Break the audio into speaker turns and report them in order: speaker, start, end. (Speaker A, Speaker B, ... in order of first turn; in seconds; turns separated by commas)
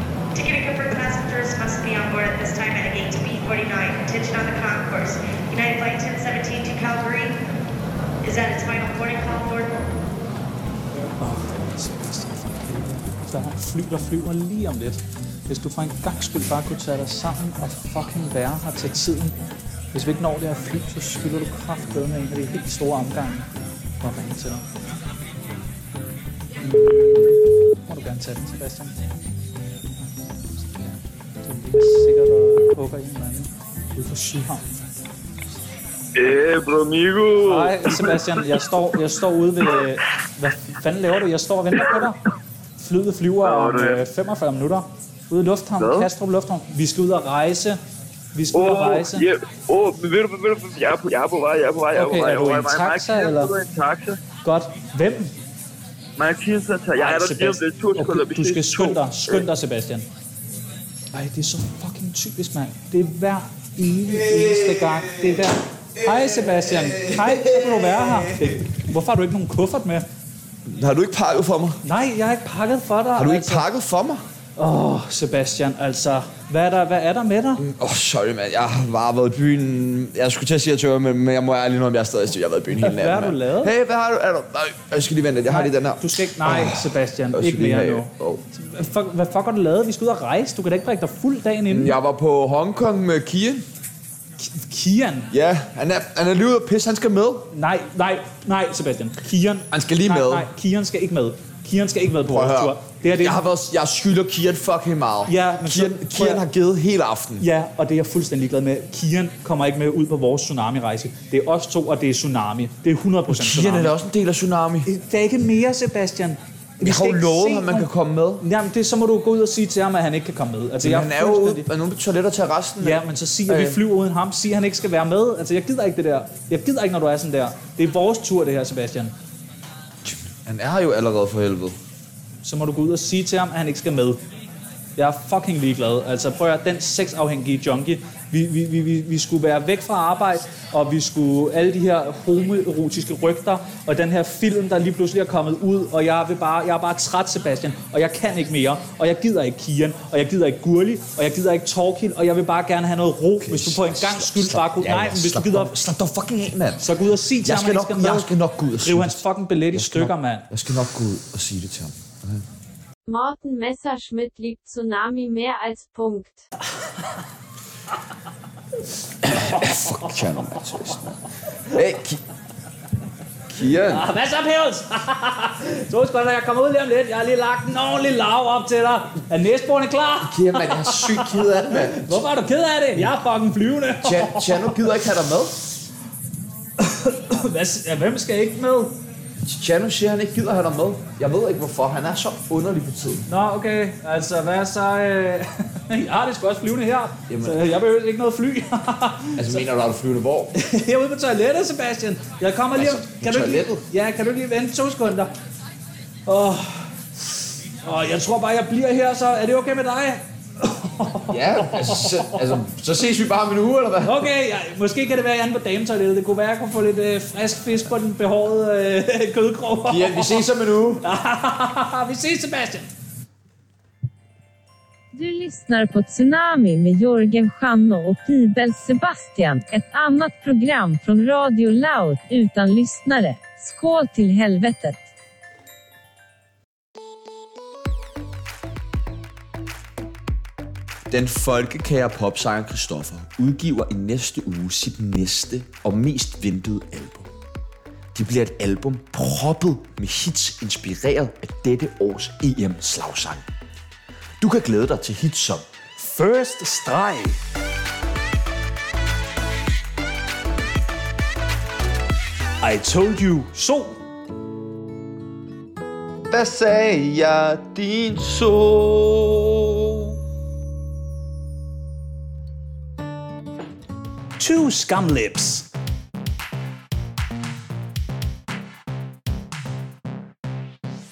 Speaker A: 0.3-7.4, Speaker A: 8.2-9.8, Speaker B: 11.2-19.4, Speaker B: 19.9-23.5, Speaker B: 24.0-24.6, Speaker B: 26.6-29.0, Speaker B: 30.6-34.7, Speaker C: 36.1-38.6, Speaker B: 37.4-42.2, Speaker C: 41.8-42.1, Speaker B: 42.8-47.8, Speaker C: 43.4-44.0, Speaker C: 45.8-46.1, Speaker B: 48.3-49.2, Speaker C: 48.5-54.2, Speaker B: 51.9-53.5, Speaker B: 54.4-55.3, Speaker C: 56.2-59.5, Speaker B: 57.0-60.1, Speaker B: 61.1-70.0, Speaker D: 64.0-65.4, Speaker D: 66.0-68.6, Speaker D: 70.6-71.8, Speaker B: 71.8-73.7, Speaker D: 73.2-74.2, Speaker B: 74.6-77.6, Speaker D: 77.6-88.4, Speaker B: 82.8-83.7, Speaker B: 85.5-92.0, Speaker D: 91.7-93.7, Speaker B: 94.4-95.3, Speaker D: 95.3-97.5, Speaker B: 97.5-103.4, Speaker D: 99.7-100.5, Speaker D: 102.2-107.5, Speaker B: 105.2-106.4, Speaker B: 107.4-113.9, Speaker D: 113.3-114.9, Speaker B: 114.8-117.9, Speaker D: 116.8-118.4, Speaker B: 118.4-121.7, Speaker D: 120.8-123.8, Speaker B: 122.8-129.1, Speaker D: 130.0-131.8, Speaker B: 132.4-134.2, Speaker B: 135.0-155.8, Speaker D: 153.4-156.8, Speaker B: 156.8-160.5, Speaker D: 157.4-162.4, Speaker E: 163.1-166.4, Speaker D: 169.2-172.2, Speaker D: 173.5-174.1, Speaker B: 173.8-184.9, Speaker D: 180.2-182.2, Speaker D: 184.0-185.5, Speaker B: 186.8-188.9, Speaker D: 189.4-193.2, Speaker B: 193.3-199.6, Speaker D: 197.3-197.6, Speaker D: 199.3-200.5, Speaker B: 200.5-205.3, Speaker D: 202.7-203.7, Speaker B: 206.2-206.9, Speaker B: 207.8-212.6, Speaker D: 211.3-214.3, Speaker B: 214.0-220.5, Speaker D: 219.8-221.0, Speaker B: 221.0-222.9, Speaker F: 225.1-235.0, Speaker D: 241.1-247.3, Speaker D: 248.1-253.4, Speaker D: 254.4-255.6, Speaker B: 256.0-257.4, Speaker B: 262.6-264.0, Speaker D: 266.3-269.8, Speaker B: 274.4-275.7